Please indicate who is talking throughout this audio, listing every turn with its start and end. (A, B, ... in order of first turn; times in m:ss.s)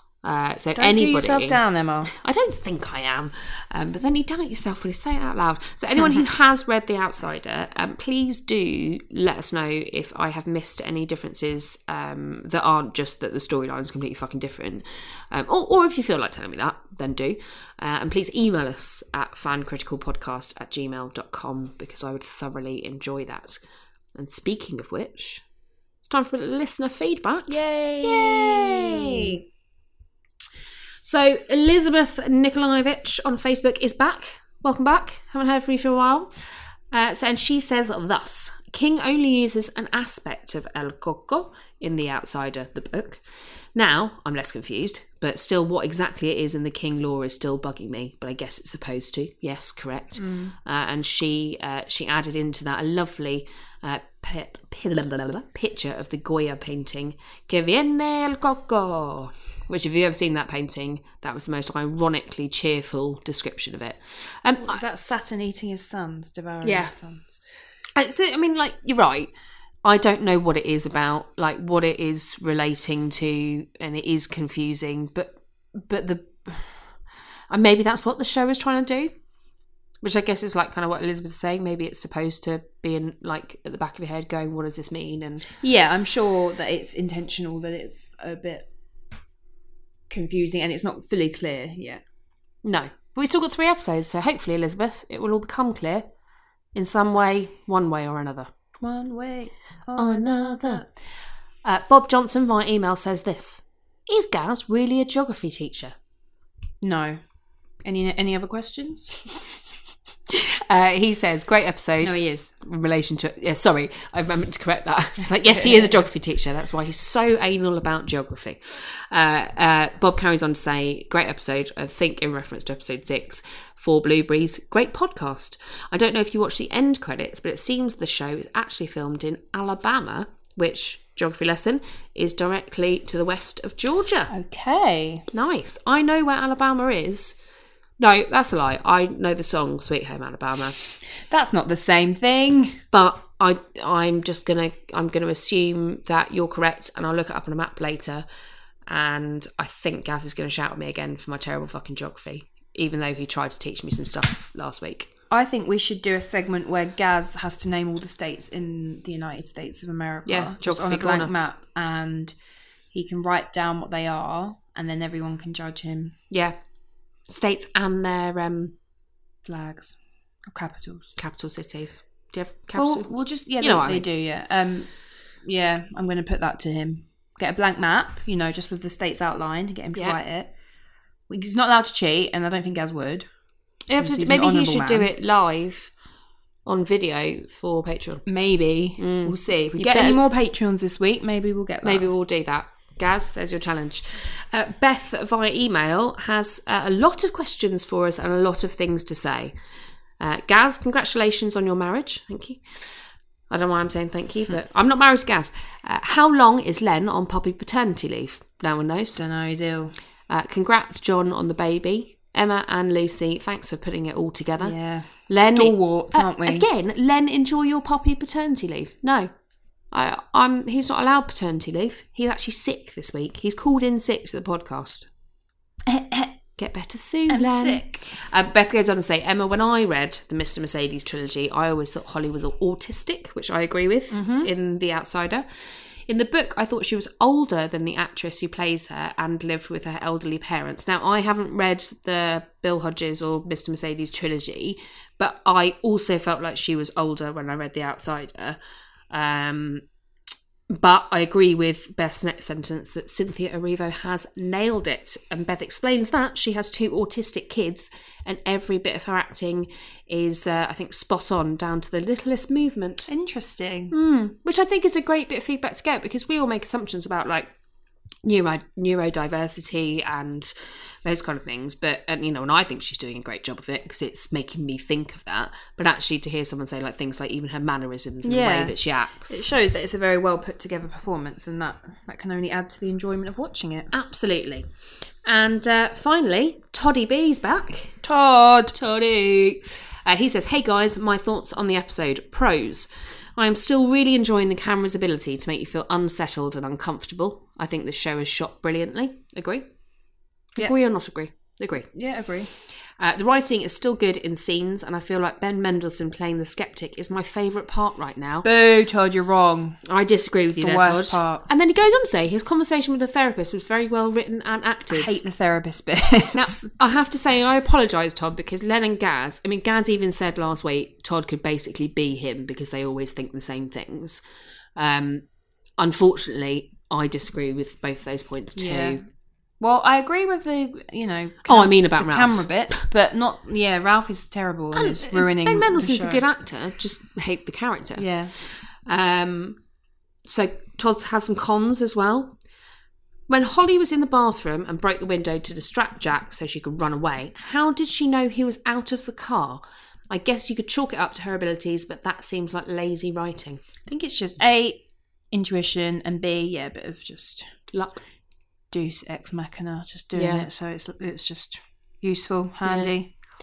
0:00.2-0:01.6 A
0:00.8-0:02.1 B
0:02.1-0:23.6 A
0:24.2-0:25.4 A
0:26.0-0:29.4 A
0:27.5-0:29.4 B
0:31.0-0:43.2 A
0:43.7-1:04.8 A
0:50.2-0:50.5 B
1:04.6-1:07.3 B
1:06.6-1:07.0 A
1:08.0-1:09.3 A
1:09.8-1:16.9 A
1:17.5-1:19.1 A
1:20.0-1:25.5 A
1:25.6-1:28.7 B
1:30.1-1:32.0 B
1:32.6-1:36.1 A
1:36.8-1:38.5 A
1:38.8-1:40.9 B
1:40.0-1:40.8 A
1:41.6-1:46.0 A
1:46.8-1:47.2 B
1:47.8-1:49.2 B
1:50.3-2:14.3 A
1:52.0-1:52.5 B
1:55.2-1:56.0 B
2:14.3-2:15.3 B
2:15.3-2:17.4 A
2:18.0-2:20.8 A
2:21.3-2:22.8 B
2:22.9-2:28.3 A
2:28.9-2:35.1 A
2:35.3-2:42.3 B
2:40.3-2:41.3 A
2:42.9-2:46.2 B
2:46.3-2:46.6 A
2:47.3-2:48.8 A
2:49.5-2:51.1 B
2:51.2-2:53.1 A
2:52.8-2:54.9 B
2:53.6-2:54.1 A
2:55.4-3:00.5 B
3:01.3-3:03.3 B
3:03.9-3:05.9 A
3:04.0-3:05.1 B
3:06.7-3:08.2 A
3:08.3-3:12.1 B
3:09.0-3:10.2 A
3:11.8-3:19.6 A
3:20.2-3:22.9 A
3:23.5-3:29.2 A
3:29.2-3:30.0 B
3:30.3-3:34.8 A
3:34.6-3:36.7 B
3:35.3-3:39.3 A
3:39.9-3:45.1 A
3:45.9-3:46.4 B
3:46.6-4:08.6 A
3:47.3-3:48.1 B
3:54.1-3:54.5 B
4:09.1-4:09.8 A
4:10.7-4:23.1 A
4:23.1-4:23.9 B
4:23.9-4:27.5 A
4:28.2-4:39.4 A
4:38.2-4:38.8 B
4:39.3-4:43.9 B
4:43.9-4:44.7 A
4:45.2-4:48.0 A
4:48.0-4:48.8 B
4:48.7-4:59.7 A
5:00.6-5:01.9 A
5:01.9-5:02.5 B
5:03.0-5:08.5 A
5:08.4-5:09.8 B
5:09.8-5:15.2 A
5:10.6-5:11.5 B
5:14.9-5:16.6 B
5:16.3-5:24.2 A
5:24.8-5:25.2 A
5:25.8-5:29.0 A
5:28.6-5:29.0 B
5:29.6-5:36.2 B
5:31.5-5:32.8 A
5:34.8-5:39.6 A
5:38.0-5:38.3 B
5:40.3-5:42.4 A
5:43.3-5:53.6 A
5:53.9-5:57.5 B
5:57.7-5:58.0 A
5:58.7-6:03.1 B
6:00.1-6:00.5 A
6:02.6-6:02.9 A